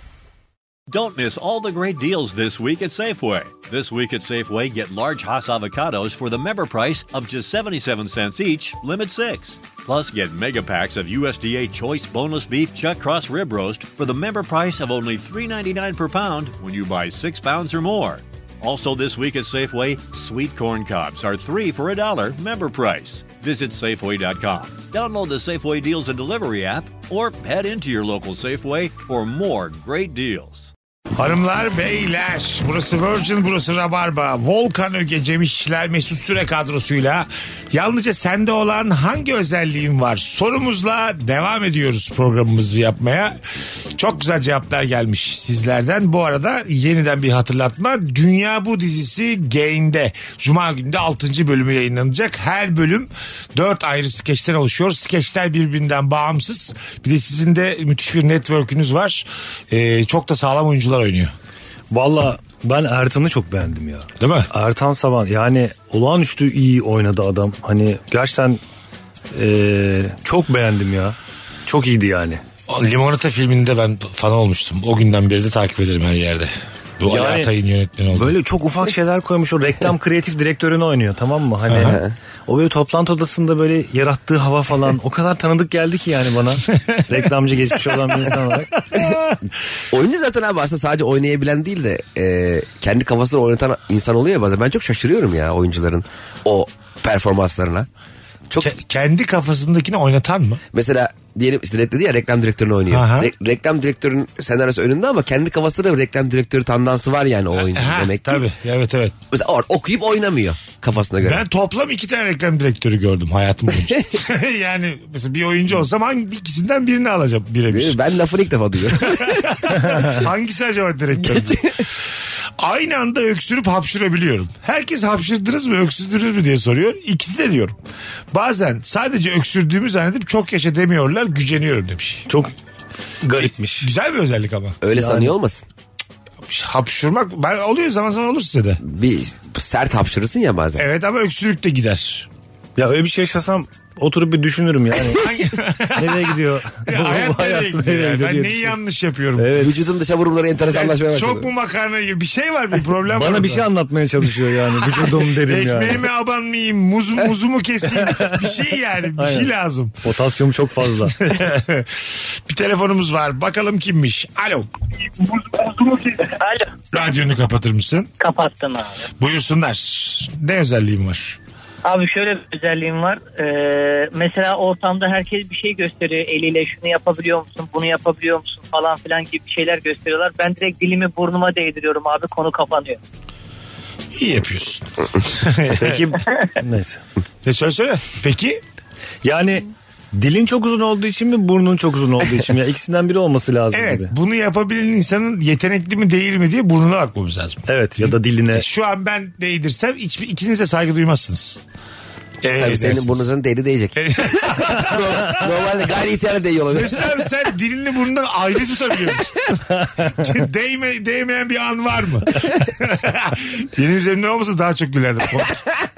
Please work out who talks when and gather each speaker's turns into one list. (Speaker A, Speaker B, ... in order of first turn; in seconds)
Speaker A: 0.9-30.7
Speaker B: 31.2-43.4, 44.0-61.3, 64.2-64.5, 72.7-78.3, 81.7-82.0, 88.9-89.3, 98.6-100.6, 102.9-103.3, 107.6-109.2, 111.2-117.9, 119.0-121.8, 122.6-127.8, 128.3-132.2, 133.4-134.8, 136.5-138.8, 140.8-142.3, 145.1-149.5, 150.7-153.7, 154.8-160.0, 161.1-164.7, 166.9-168.1, 169.2-171.4, 184.1-186.0, 187.4-188.6, 193.7-201.6, 202.4-203.3, 204.0-205.4, 206.7-215.6
Speaker C: 61.9-68.6, 69.3-72.4, 77.1-77.5, 78.1-88.7, 132.3-132.5, 133.2-133.9, 134.9-135.3, 142.8-145.3, 145.9-148.8, 149.4-149.7, 153.1-156.1, 159.2-159.5, 160.0-161.1, 185.8-187.0, 189.2-194.1, 197.7-198.6
Speaker D: 81.8-82.1, 89.9-97.9, 100.7-108.4, 109.3-111.4, 117.7-119.5, 121.2-121.8, 134.8-135.7, 138.8-140.8, 149.5-151.5, 202.6-207.1
Speaker E: 166.2-166.8, 168.2-169.1, 171.8-183.0